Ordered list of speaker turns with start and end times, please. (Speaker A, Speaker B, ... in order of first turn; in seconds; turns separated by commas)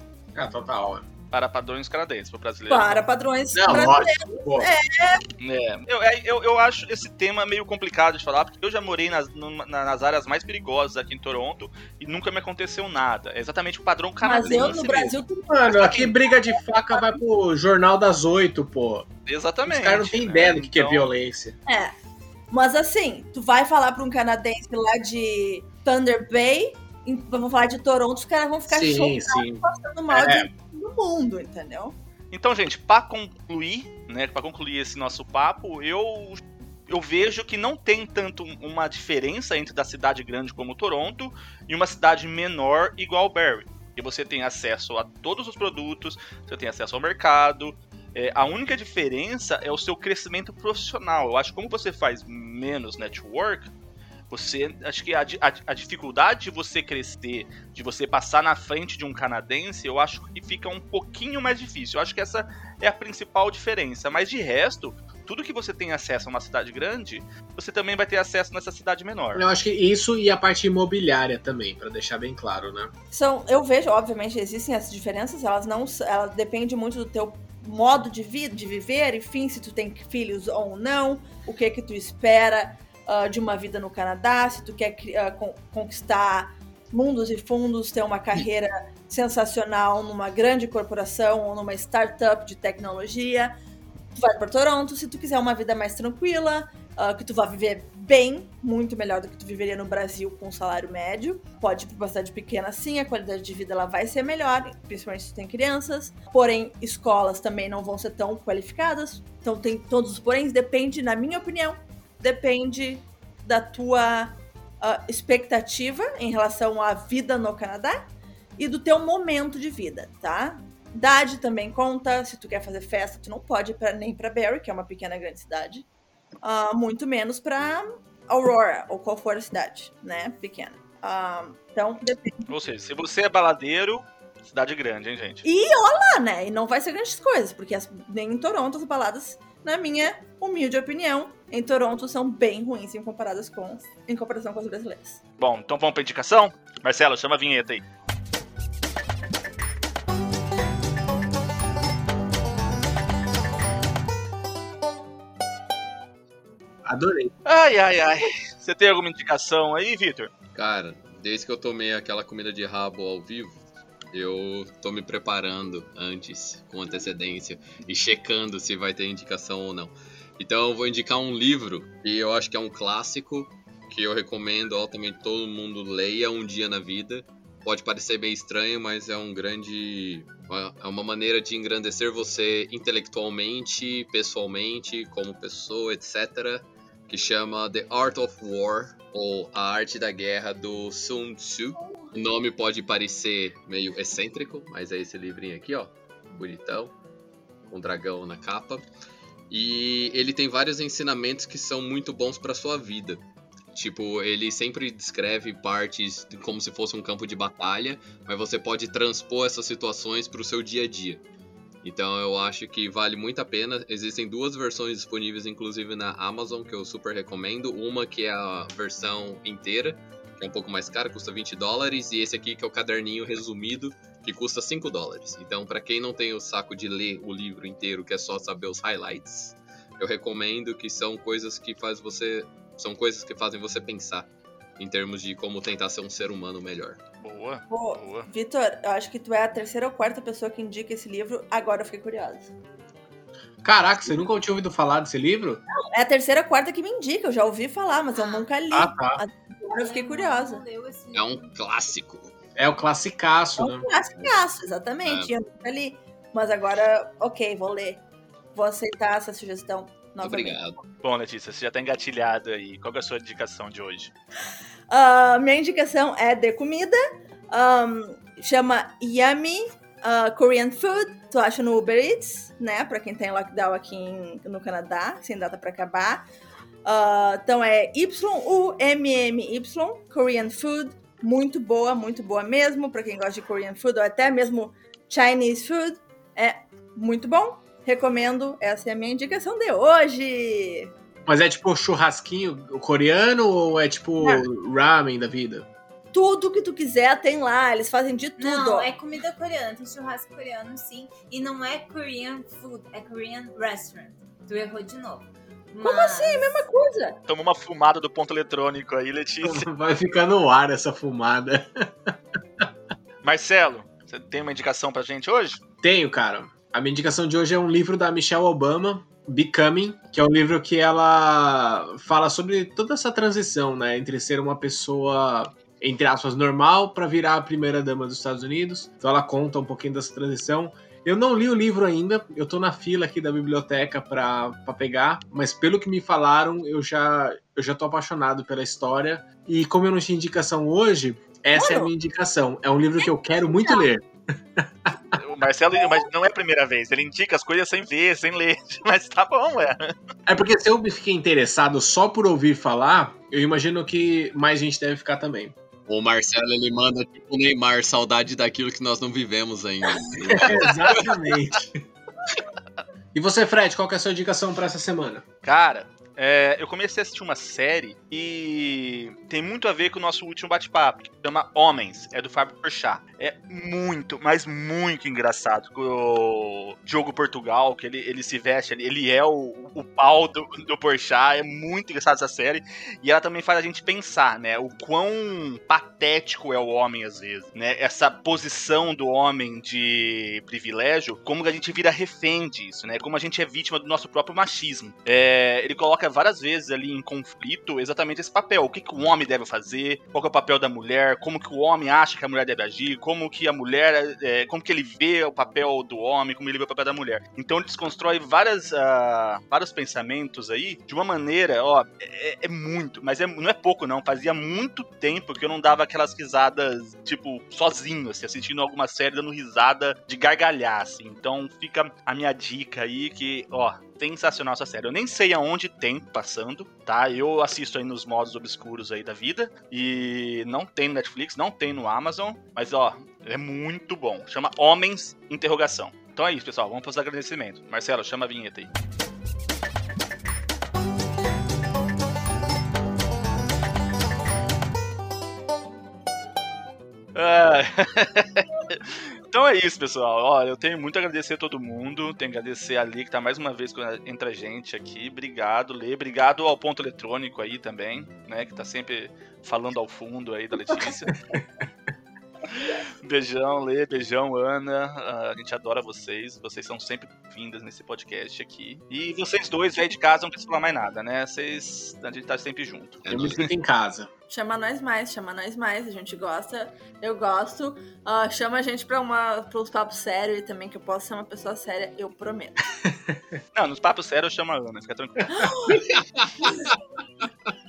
Speaker A: 0.3-1.1, Speaker B: 1.3-3.0, Speaker C: 2.7-5.2, Speaker A: 3.5-4.7, Speaker B: 5.4-15.2, Speaker C: 14.2-17.2, Speaker A: 15.5-19.1, Speaker B: 19.3-21.1, Speaker A: 19.7-21.6, Speaker C: 21.7-21.9, Speaker C: 22.5-32.0, Speaker A: 28.7-30.5, Speaker B: 32.3-53.7, Speaker B: 54.3-69.5, Speaker A: 69.3-72.9, Speaker C: 73.1-93.5, Speaker C: 94.2-125.9, Speaker C: 126.4-132.5, Speaker B: 132.5-135.4, Speaker C: 135.4-145.2, Speaker B: 145.4-147.8, Speaker A: 156.8-157.3, Speaker B: 157.5-160.3, Speaker D: 160.6-163.6, Speaker D: 164.1-196.9, Speaker D: 197.7-198.9, Speaker D: 199.5-211.2, Speaker D: 211.8-234.3, Speaker D: 234.8-237.0, Speaker B: 237.2-238.3, Speaker C: 237.7-242.5, Speaker A: 243.6-245.6, Speaker C: 245.8-250.6, Speaker E: 248.1-248.5, Speaker A: 248.7-249.2, Speaker E: 249.8-251.6, Speaker D: 251.1-252.3, Speaker A: 252.6-253.9, Speaker C: 253.6-258.0, Speaker D: 255.1-255.3, Speaker C: 258.6-260.6, Speaker D: 260.2-260.8, Speaker B: 261.0-264.1, Speaker C: 264.9-276.2, Speaker C: 276.9-290.9, Speaker A: 291.3-295.7, Speaker C: 296.1-298.9, Speaker E: 298.4-306.7, Speaker C: 305.8-307.2, Speaker B: 307.3-309.7, Speaker A: 309.4-312.7, Speaker B: 313.2-315.6, Speaker A: 315.8-344.9, Speaker C: 341.6-341.9, Speaker C: 343.1-343.9, Speaker B: 345.2-349.9, Speaker A: 350.3-355.5, Speaker D: 355.9-361.2, Speaker A: 360.2-361.8, Speaker A: 363.1-365.2, Speaker B: 365.4-438.7, Speaker B: 447.1-461.2, Speaker A: 460.8-461.4, Speaker B: 463.0-473.4, Speaker D: 473.1-473.5, Speaker A: 473.1-474.1, Speaker C: 474.3-482.6, Speaker B: 483.6-485.5, Speaker C: 485.3-485.9, Speaker A: 485.7-486.6